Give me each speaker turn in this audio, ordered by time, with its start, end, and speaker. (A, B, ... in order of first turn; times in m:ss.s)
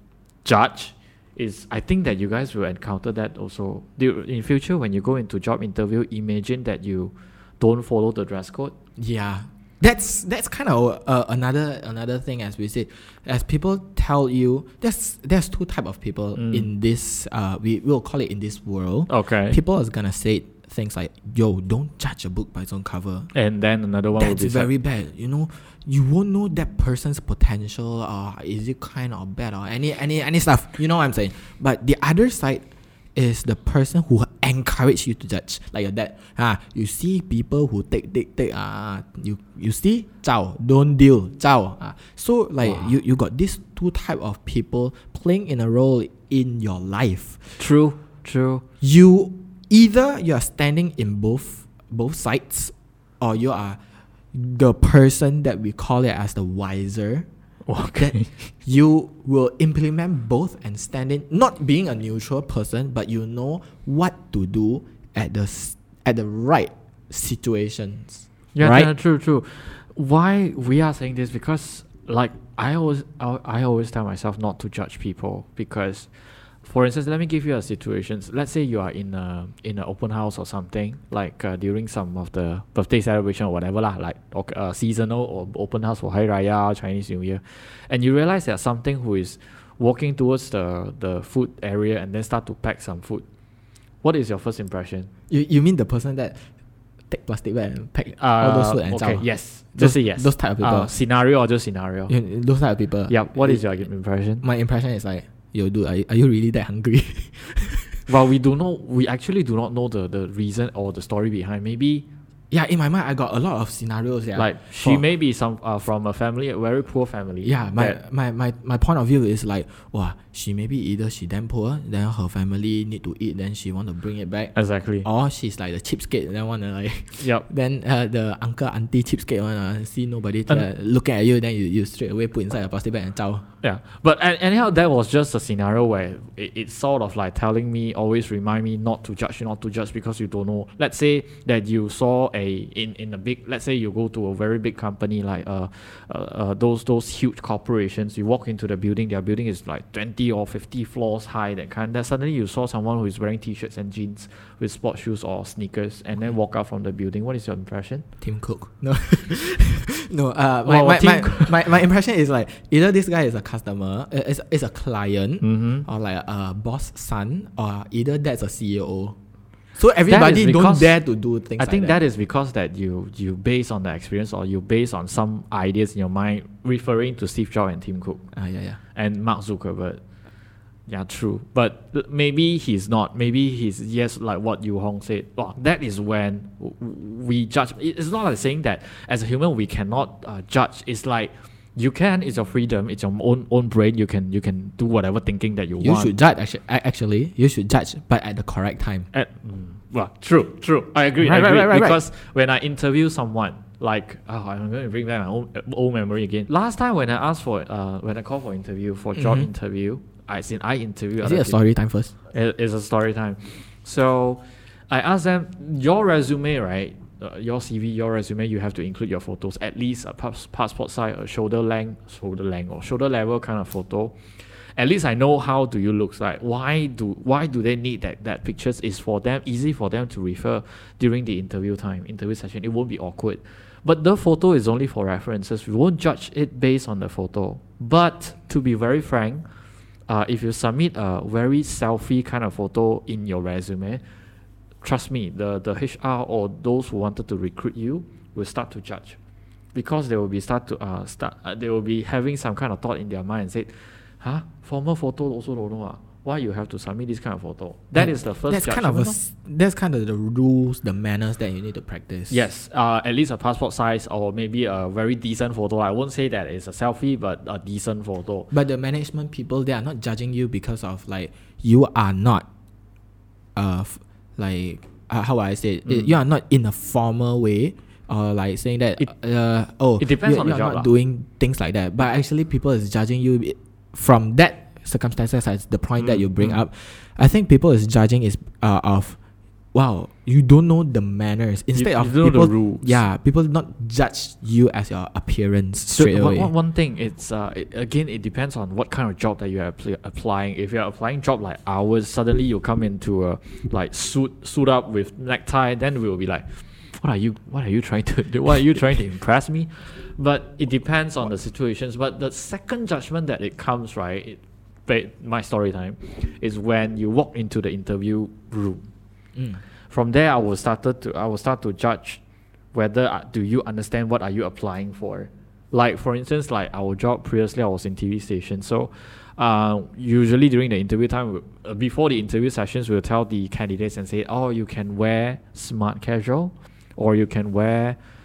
0:00.4-0:08.7 A
0:09.0-0:23.3 B
0:16.4-0:16.7 A
0:19.1-0:19.6 A
0:23.3-0:24.7 A
0:24.2-0:32.6 B
0:33.2-0:47.6 B
0:47.6-0:48.6 A
0:48.8-0:53.8 B
0:54.3-0:57.3 B
0:57.7-0:58.3 A
0:58.0-1:08.9 B
1:08.6-1:16.1 A
1:16.6-1:33.2 A
1:34.0-1:35.1 A
1:35.3-1:36.4 B
1:37.1-1:40.9 B
1:38.2-1:42.1 A
1:42.1-1:43.6 B
1:43.1-1:44.4 A
1:44.4-1:48.0 B
1:48.1-1:52.1 A
1:52.5-1:55.0 B
1:54.4-1:58.0 A
1:57.4-2:13.4 B
2:04.6-2:05.1 A
2:07.2-2:07.5 A
2:13.6-2:38.0 A
2:38.2-2:49.2 B
2:40.6-2:41.7 A
2:45.4-2:45.9 A
2:49.8-2:52.0 B
2:50.1-2:50.9 A
2:51.6-2:58.2 A
2:58.3-2:58.8 B
2:59.0-3:00.0 A
3:00.9-3:16.1 A
3:15.8-3:19.1 B
3:19.1-3:31.6 A
3:21.2-3:22.0 B
3:29.2-3:29.5 B
3:31.2-3:32.1 B
3:32.3-3:59.5 A
4:00.1-4:04.0 A
4:04.8-4:09.2 A
4:09.7-4:19.2 A
4:18.0-4:22.4 B
4:22.3-4:28.5 A
4:28.5-4:32.5 B
4:33.6-4:49.2 B
4:35.9-4:36.1 A
4:40.0-4:40.9 A
4:46.0-4:46.6 A
4:49.7-4:56.5 B
4:51.8-4:53.0 A
4:55.9-5:18.9 A
5:19.9-5:22.2 A
5:22.7-5:38.0 A